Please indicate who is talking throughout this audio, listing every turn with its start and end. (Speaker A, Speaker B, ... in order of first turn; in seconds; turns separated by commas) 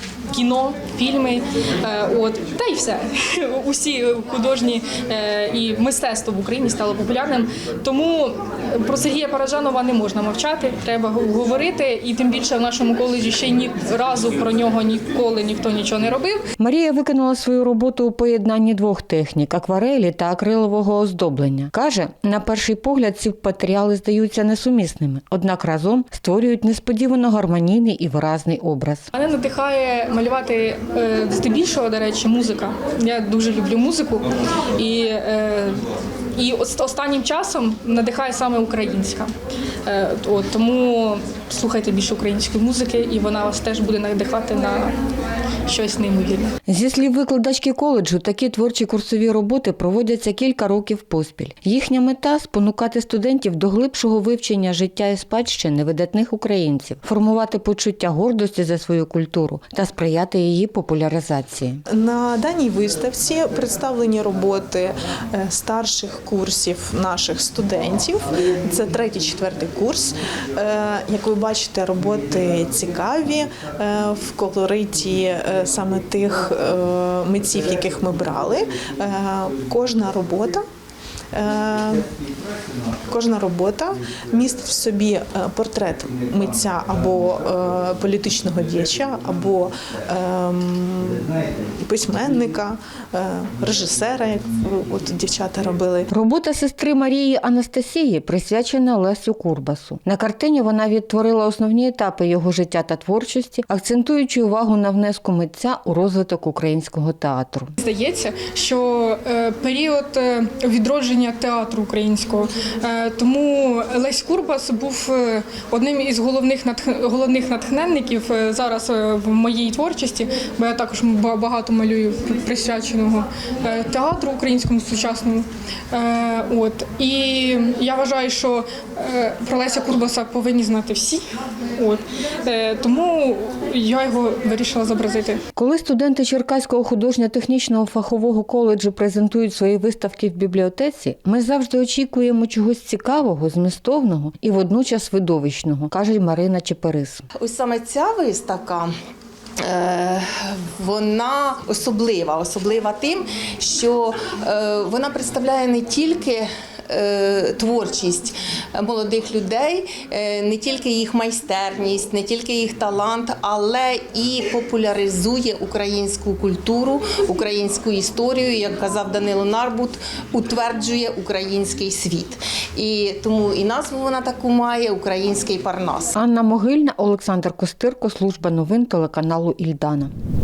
Speaker A: 0.3-16.4, Speaker B: 16.6-29.1, Speaker A: 29.1-35.8, Speaker A: 36.4-39.3, Speaker A: 39.9-44.9, Speaker A: 45.7-46.5, Speaker B: 46.7-61.8, Speaker C: 61.9-80.6, Speaker C: 81.3-82.1, Speaker C: 83.1-96.1, Speaker B: 96.1-107.7, Speaker A: 107.8-131.2, Speaker A: 131.8-135.4, Speaker B: 135.6-147.2, Speaker D: 147.3-148.9, Speaker D: 149.6-176.1, Speaker B: 176.1-180.1